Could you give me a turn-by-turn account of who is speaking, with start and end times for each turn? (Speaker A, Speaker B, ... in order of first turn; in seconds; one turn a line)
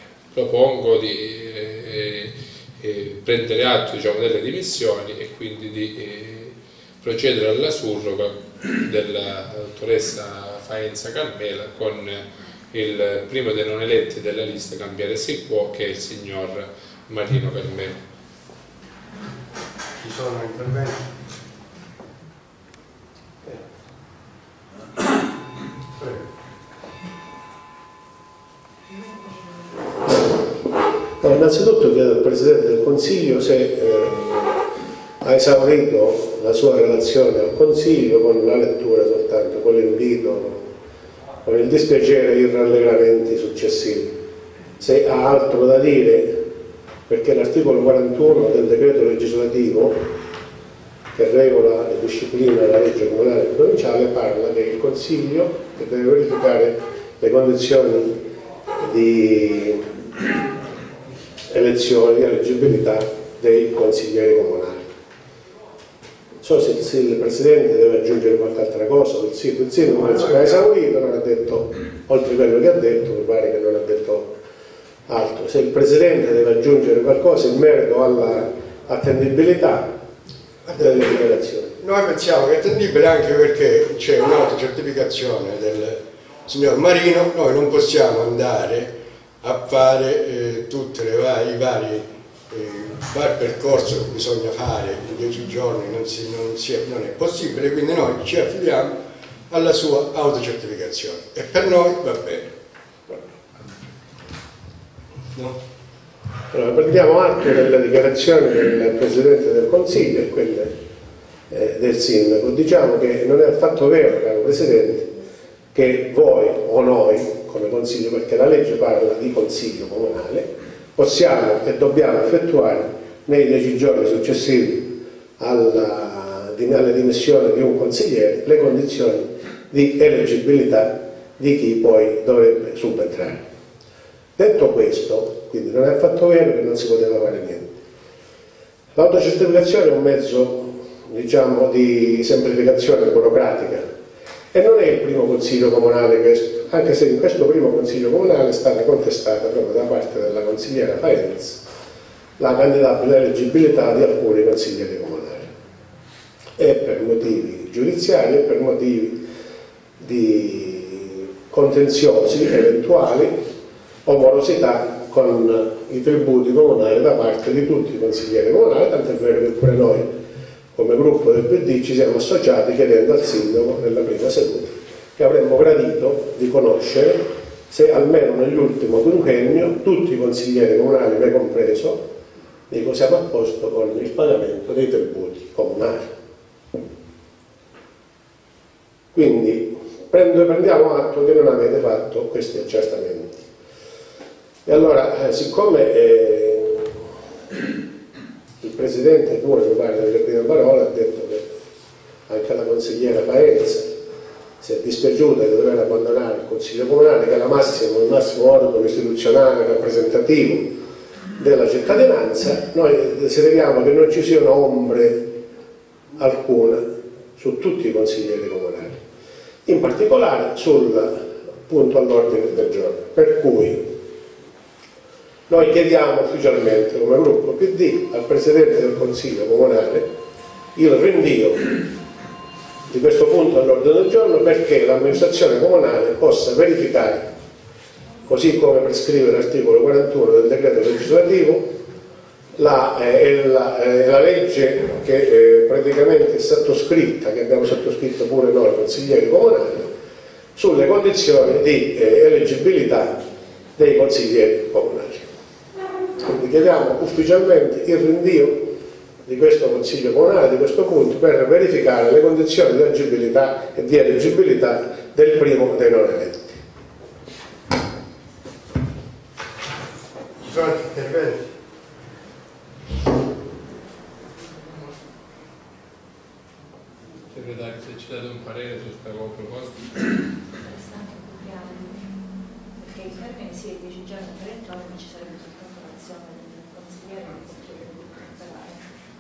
Speaker A: 0.3-18.0
Speaker B: 20.0-21.0
Speaker B: 26.0-26.2
Speaker C: 31.2-34.6
Speaker C: 35.2-40.7
Speaker C: 41.4-44.2
Speaker C: 44.8-46.4
Speaker C: 47.1-50.0
Speaker C: 51.1-58.2
Speaker C: 58.8-59.8
Speaker C: 61.5-64.9
Speaker C: 66.4-74.4
Speaker B: 69.9-70.5
Speaker C: 75.1-80.0
Speaker B: 80.6-81.2
Speaker C: 80.7-81.8
Speaker B: 81.8-99.0
Speaker B: 99.5-102.5
Speaker C: 106.5-110.7
Speaker C: 111.5-115.2
Speaker C: 115.7-133.4
Speaker C: 134.4-137.7
Speaker C: 138.9-143.8
Speaker C: 144.5-151.6
Speaker C: 152.4-155.5
Speaker C: 156.6-159.2
Speaker C: 160.0-163.3
Speaker C: 164.0-170.1
Speaker C: 170.7-182.1
Speaker C: 182.7-186.1
Speaker C: 189.1-193.4
Speaker C: 194.6-196.9
Speaker C: 198.6-201.5
Speaker C: 202.3-203.9
Speaker C: 204.6-210.7
Speaker C: 211.4-215.3
Speaker C: 216.2-216.8
Speaker C: 217.3-219.0
Speaker C: 219.7-223.9
Speaker C: 225.5-230.1
Speaker C: 230.7-231.8
Speaker C: 232.9-237.3
Speaker C: 238.2-241.7
Speaker C: 242.6-249.9
Speaker C: 250.5-253.2
Speaker C: 253.8-255.3
Speaker C: 256.2-258.7
Speaker C: 259.2-266.6
Speaker B: 270.4-271.4
Speaker A: 274.6-274.9
Speaker A: 277.3-280.0
Speaker D: 280.6-282.1
Speaker D: 282.8-288.8